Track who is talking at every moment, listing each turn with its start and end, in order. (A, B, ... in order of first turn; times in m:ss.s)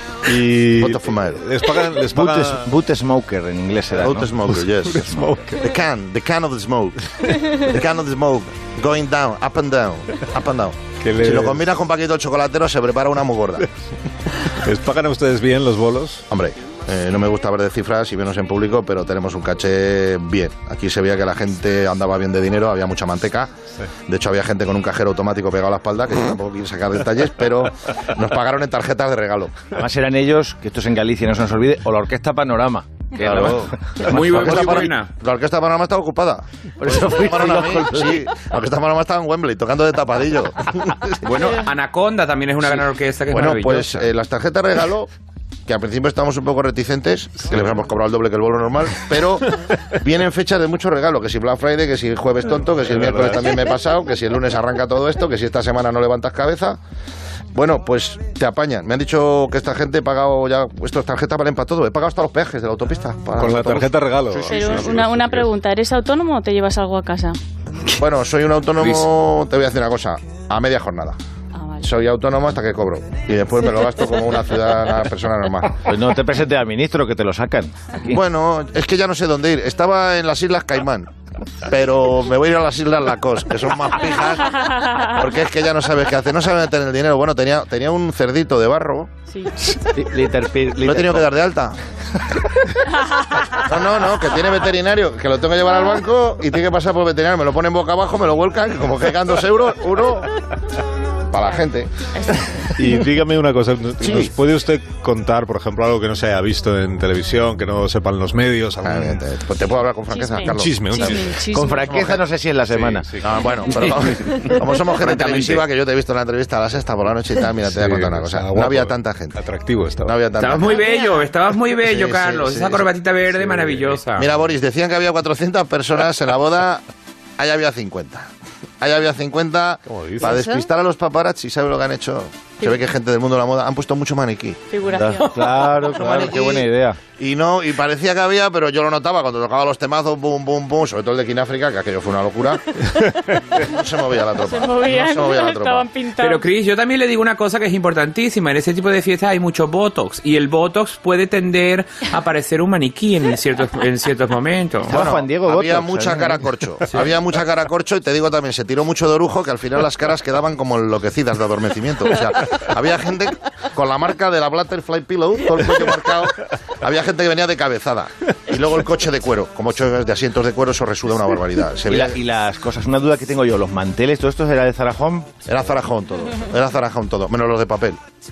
0:00.3-0:02.7 A
0:00.8-0:01.4 B
0:02.1-0:04.3 C
0:04.0-0:13.7 B
0:04.6-0:05.6 A
0:11.0-0:11.6 A
0:14.6-0:16.2 A
0:16.3-0:23.5 B
0:24.1-0:29.7 B
0:29.7-0:34.9 C
0:33.2-0:41.4 B
0:34.0-0:35.1 D
0:36.8-0:38.3 C
0:41.2-0:44.1 D
0:43.3-0:45.1 B
0:45.7-0:56.8 B
0:53.0-0:53.3 A
0:57.5-1:03.9 B
1:03.4-1:05.5 A
1:04.4-1:07.4 E
1:08.0-1:11.2 B
1:08.8-1:09.1 D
1:11.6-1:11.9 E
1:11.8-1:15.8 B
1:15.9-1:18.2 C
1:18.1-1:21.1 B
1:21.6-1:29.1 B
1:29.6-1:31.3 C
1:30.8-1:31.8 B
1:33.5-1:40.3 B
1:41.3-1:41.9 B
1:42.2-1:42.7 E
1:42.8-1:49.2 A
1:44.0-1:44.3 B
1:48.8-1:51.2 B
1:50.1-1:51.9 E
1:50.4-1:51.2 A
1:51.5-1:53.1 C
1:51.8-1:52.2 B
1:52.7-1:53.3 A
1:53.2-1:59.3 B
1:53.7-1:55.6 D
1:57.7-2:00.2 A
2:00.0-2:00.8 B
2:00.4-2:04.3 D
2:01.8-2:02.9 B
2:03.5-2:04.0 A
2:04.2-2:06.8 B
2:07.4-2:08.3 B
2:08.8-2:14.6 B
2:09.9-2:10.5 A
2:14.7-2:15.8 E
2:14.9-2:17.0 C
2:15.8-2:22.7 B
2:23.5-2:25.9 B
2:24.4-2:26.4 E
2:26.2-2:35.0 D
2:34.9-2:36.5 C
2:34.9-2:52.2 B
2:51.9-2:55.3 C
2:55.5-2:58.0 B